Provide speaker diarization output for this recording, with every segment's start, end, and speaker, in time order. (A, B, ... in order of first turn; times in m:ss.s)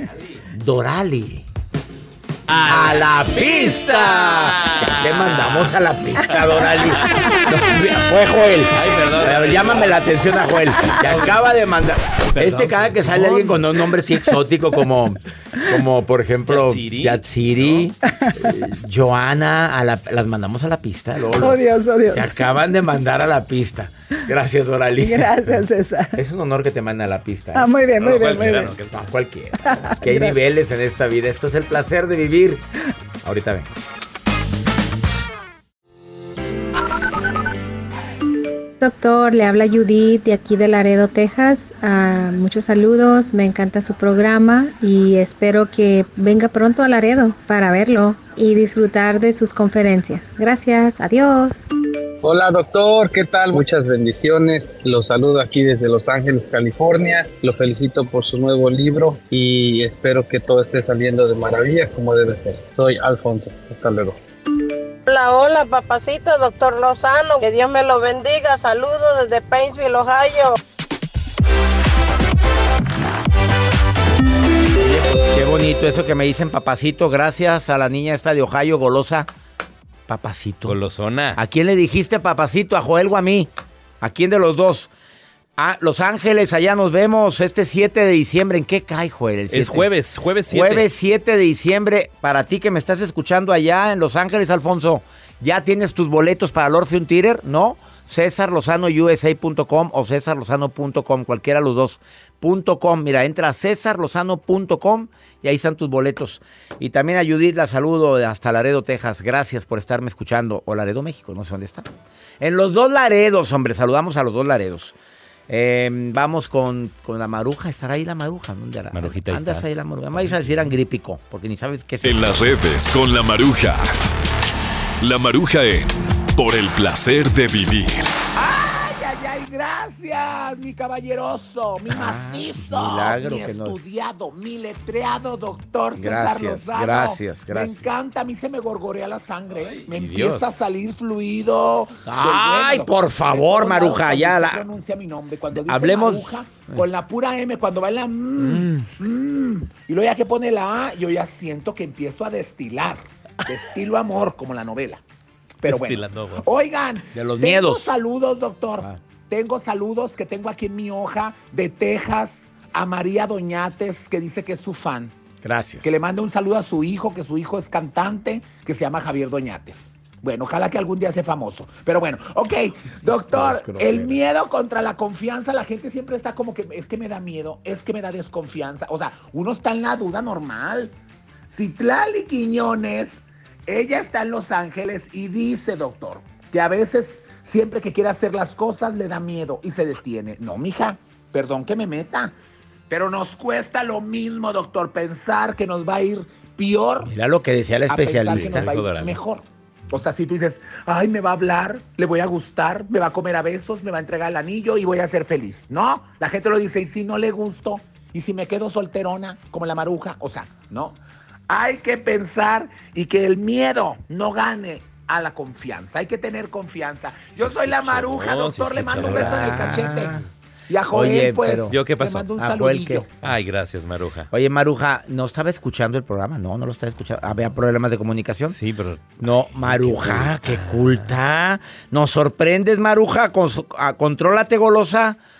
0:00.5-0:01.4 A
0:02.5-0:05.7 B
0:02.6-0:25.6 A
0:06.3-0:07.0 B
0:08.7-0:10.0 B
0:10.8-0:11.3 B
0:12.2-0:13.6 B
0:16.5-0:17.9 B
0:21.3-0:22.5 C
0:25.0-0:26.2 C
0:26.1-0:27.7 A
0:27.5-0:28.7 C
0:28.0-0:29.1 B
0:28.9-0:32.6 A
0:29.7-0:30.3 C
0:33.2-0:33.7 A
0:38.8-0:51.7 D
0:52.2-1:04.2 E
1:05.1-1:10.6 F
1:14.8-1:19.3 A
1:20.1-1:20.8 A
1:20.6-1:21.4 B
1:21.3-1:23.5 A
1:24.0-1:24.9 A
1:25.6-1:29.9 A
1:29.5-1:30.9 B
1:30.5-1:51.9 A
1:52.4-1:54.9 A
1:55.5-2:02.3 A
1:58.9-2:00.6 B
2:02.0-2:03.8 G
2:05.0-2:08.0 G
2:08.3-2:35.0 H
2:11.9-2:13.8 A
2:16.0-2:17.8 A
2:19.6-2:20.6 B
2:22.0-2:24.6 A
2:25.6-2:26.4 A
2:28.4-2:28.9 B
2:35.6-2:45.1 H
2:35.6-2:36.5 B
2:37.1-2:37.9 A
2:45.4-2:45.9 A
2:45.8-3:00.9 H
2:53.3-2:54.2 A
3:01.5-3:12.3 H
3:12.9-3:17.1 H
3:17.0-3:18.7 A
3:17.9-3:43.1 H
3:18.2-3:19.2 B
3:37.3-3:40.3 B
3:38.9-3:40.2 A
3:40.9-3:43.1 A
3:41.7-3:42.3 B
3:43.1-3:44.3 B
3:44.3-3:48.6 A
3:48.5-3:51.1 B
3:49.2-3:55.2 A